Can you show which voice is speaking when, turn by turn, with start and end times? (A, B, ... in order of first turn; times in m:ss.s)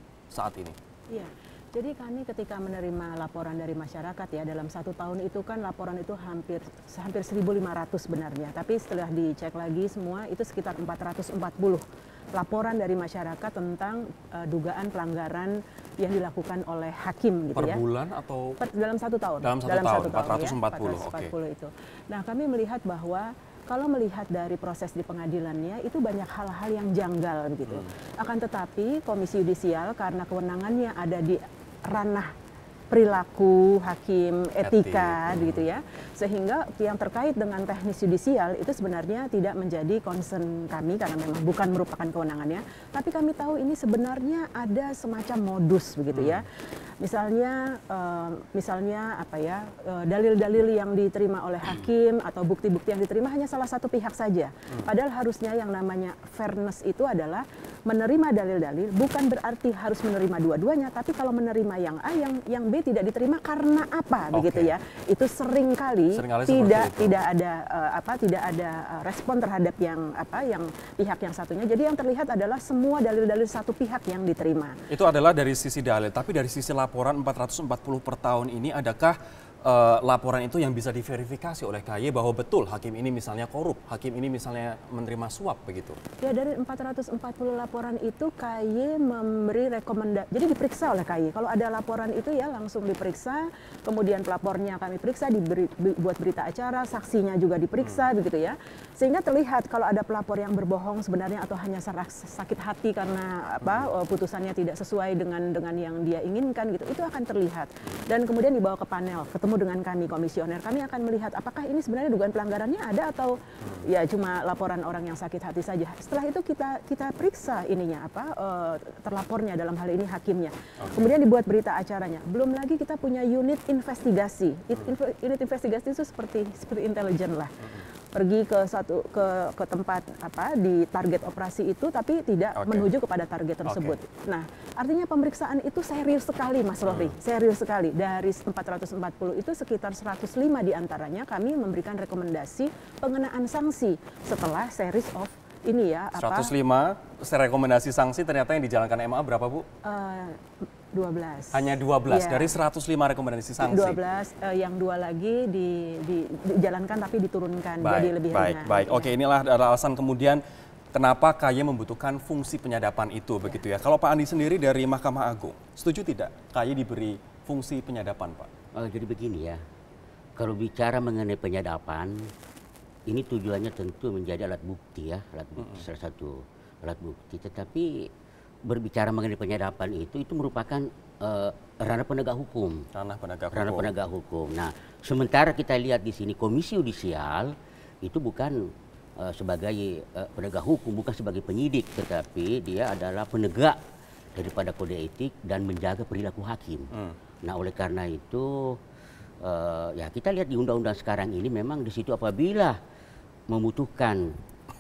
0:00.3-0:00.8 A
0:01.1-0:11.8 B
0:12.3-0:17.8 B
0:17.6-0:18.6 A
0:18.6-0:32.3 B
0:19.4-0:21.3 A
0:32.9-0:46.4 B
0:34.6-0:35.6 A
0:46.1-0:46.4 A
0:47.0-1:14.8 B
1:04.3-1:04.7 A
1:06.1-1:07.2 A
1:14.9-1:26.0 A
1:26.2-2:07.5 B
2:00.8-2:01.1 A
2:08.1-2:26.5 B
2:12.6-2:12.9 A
2:13.7-2:14.0 A
2:16.9-2:17.2 A
2:26.2-2:29.6 A
2:29.8-2:30.4 B
2:30.9-2:32.6 B
2:31.5-2:34.0 A
2:33.6-2:39.2 B
2:37.8-2:40.4 A
2:40.9-2:48.5 A
2:48.8-2:49.6 C
2:50.4-2:52.3 C
2:53.1-2:58.1 C
2:55.6-2:55.9 A
2:58.6-3:02.9 C
3:02.9-3:03.9 A
3:03.5-3:13.8 C
3:14.4-3:16.9 C
3:17.4-3:18.8 C
3:19.4-3:22.8 C
3:23.5-3:24.4 C